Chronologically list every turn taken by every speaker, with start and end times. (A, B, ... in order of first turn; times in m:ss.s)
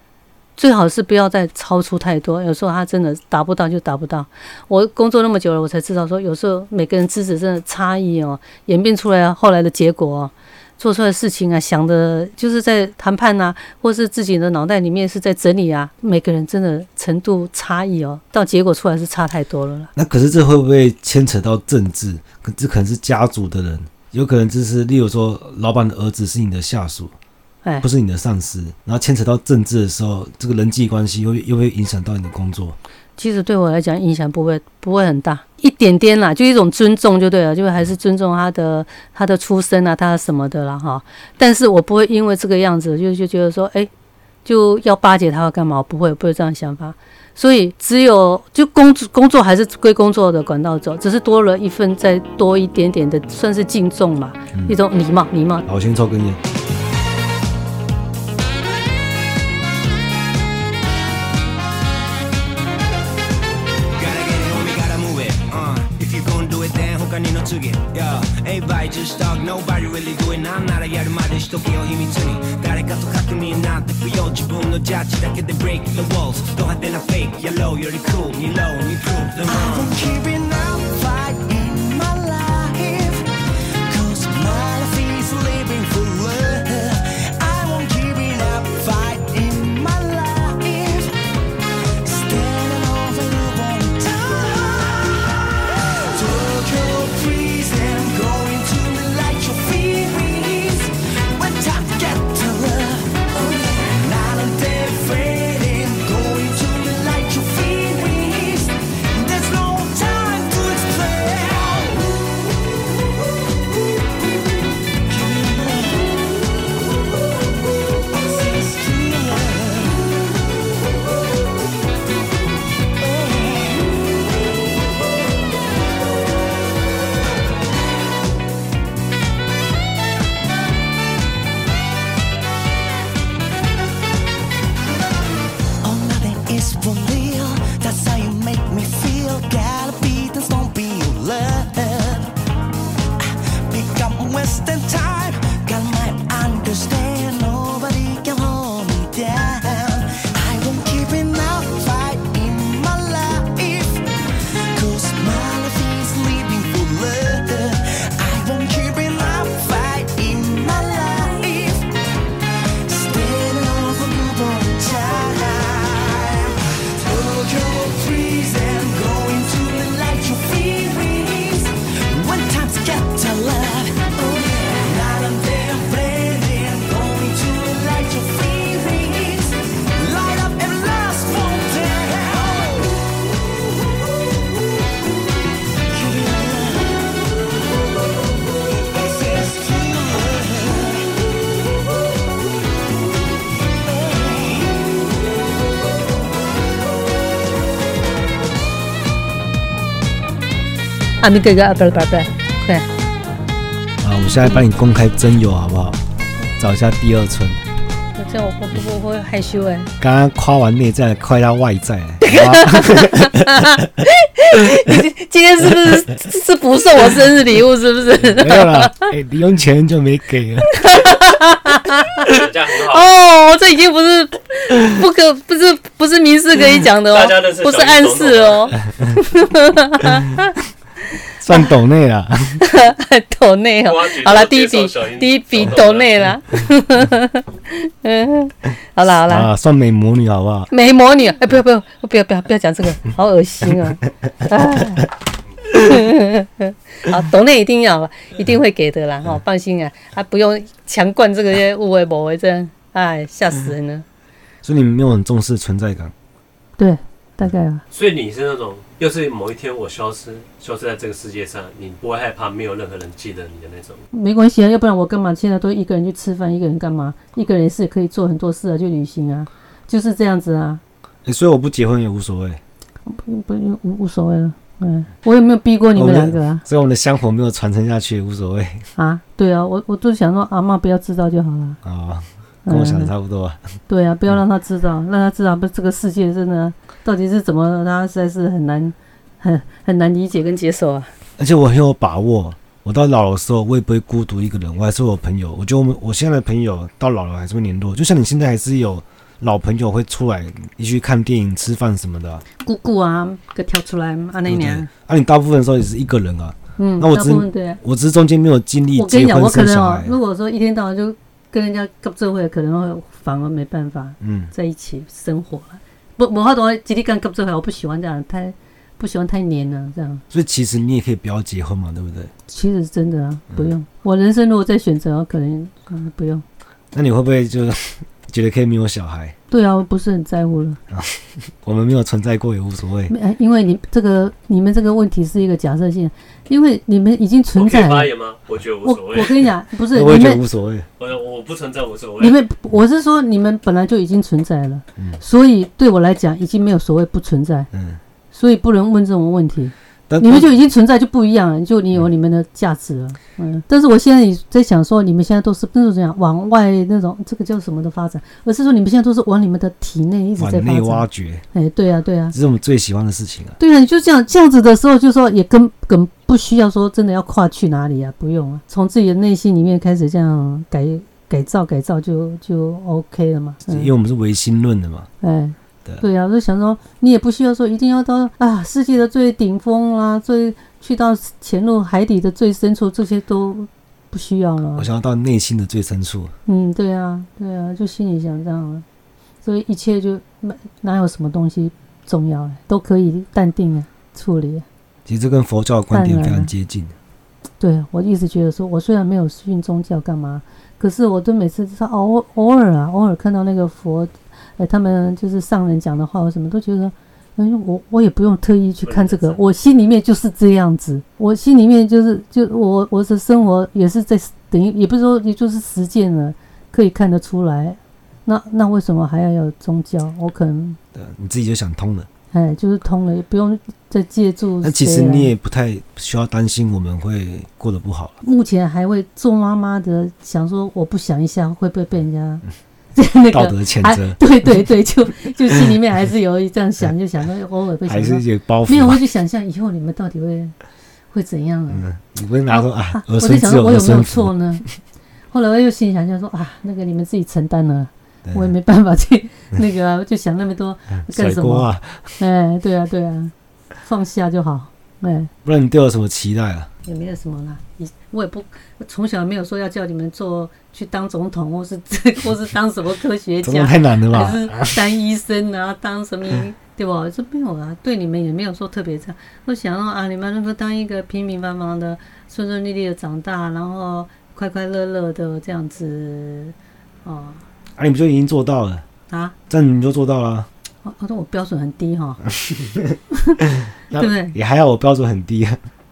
0:00.6-0:19.9 A
0:20.0-0:27.1 B
0:27.8-0:32.8 B
0:33.2-0:43.9 A
0:44.4-0:55.6 A
0:55.7-0:56.4 B
1:03.9-1:20.0 C
1:19.4-1:31.2 D
1:32.0-1:52.4 D
1:55.1-1:56.3 D
1:58.1-2:00.2 D
2:03.0-2:04.2 D
2:15.8-2:22.3 D
2:23.2-2:42.0 D
2:42.8-3:03.3 D
3:05.8-3:07.2 D
3:08.7-3:11.1 D
3:13.7-3:14.8 D
3:21.2-3:22.9 A
3:24.0-3:26.0 B
3:26.6-3:27.6 B
3:28.1-3:29.9 A
3:30.0-3:33.9 B
3:32.2-3:39.1 A
3:34.6-3:35.0 B
3:38.3-3:41.1 B
3:40.7-3:42.4 A
3:42.2-3:43.1 E
3:42.9-3:50.5 A
3:47.1-3:48.8 E
3:51.4-3:52.6 B
3:52.6-3:59.5 A
3:53.8-3:56.3 E
3:59.2-4:00.7 B
4:00.7-4:05.1 A
4:05.7-4:14.0 A
4:14.6-4:16.1 B
4:16.8-4:17.8 A
4:17.9-4:24.0 E
4:24.1-4:30.8 A
4:31.2-4:32.6 B
4:33.1-4:36.6 A
4:36.0-4:38.9 B
4:39.0-4:41.8 A
4:41.8-4:43.6 B
4:42.6-4:43.1 A
4:43.9-4:51.1 A
4:51.4-5:02.4 B
5:02.6-5:04.9 A
5:04.4-5:10.2 B
5:06.8-5:07.8 A
5:09.0-5:20.2 A
5:14.2-5:14.5 B
5:20.3-5:22.3 B
5:22.5-5:26.4 A
5:26.9-5:29.4 B
5:29.5-5:30.8 A
5:30.9-5:33.1 B
5:33.1-5:38.1 A
5:37.6-5:39.5 E
5:38.8-5:40.4 A
5:39.9-5:40.9 B
5:41.0-5:42.4 E
5:42.2-5:47.7 A
5:45.0-5:45.2 B
5:47.7-5:48.0 B
5:48.3-6:02.4 A
5:50.1-5:50.5 B
6:00.4-6:01.4 B
6:02.3-6:03.6 B
6:03.6-6:13.9 A
6:13.6-6:15.1 B
6:15.2-6:24.9 A
6:24.8-6:26.3 B
6:26.4-6:28.8 A
6:29.4-6:34.6 A
6:35.1-6:36.9 B
6:35.9-6:36.5 A
6:37.6-7:00.8 A
6:48.8-6:49.4 E
7:00.9-7:02.1 B
7:02.3-7:05.3 A
7:04.6-7:08.2 B
7:08.2-7:12.4 A
7:12.9-7:20.5 A
7:13.3-7:14.2 B
7:17.9-7:19.0 B
7:21.1-7:21.8 A
7:21.7-7:24.7 B
7:22.5-7:24.6 A
7:25.3-7:33.3 A
7:28.2-7:28.5 B
7:31.0-7:32.2 B
7:33.8-7:35.3 A
7:35.4-7:36.7 B
7:36.8-7:57.4 A
7:43.4-7:44.8 B
7:57.8-7:58.8 B
7:59.1-7:59.4 A
7:59.5-8:00.5 B
8:00.8-8:02.2 A
8:02.4-8:03.0 B
8:03.1-8:03.4 A
8:03.9-8:05.6 B
8:04.0-8:04.4 A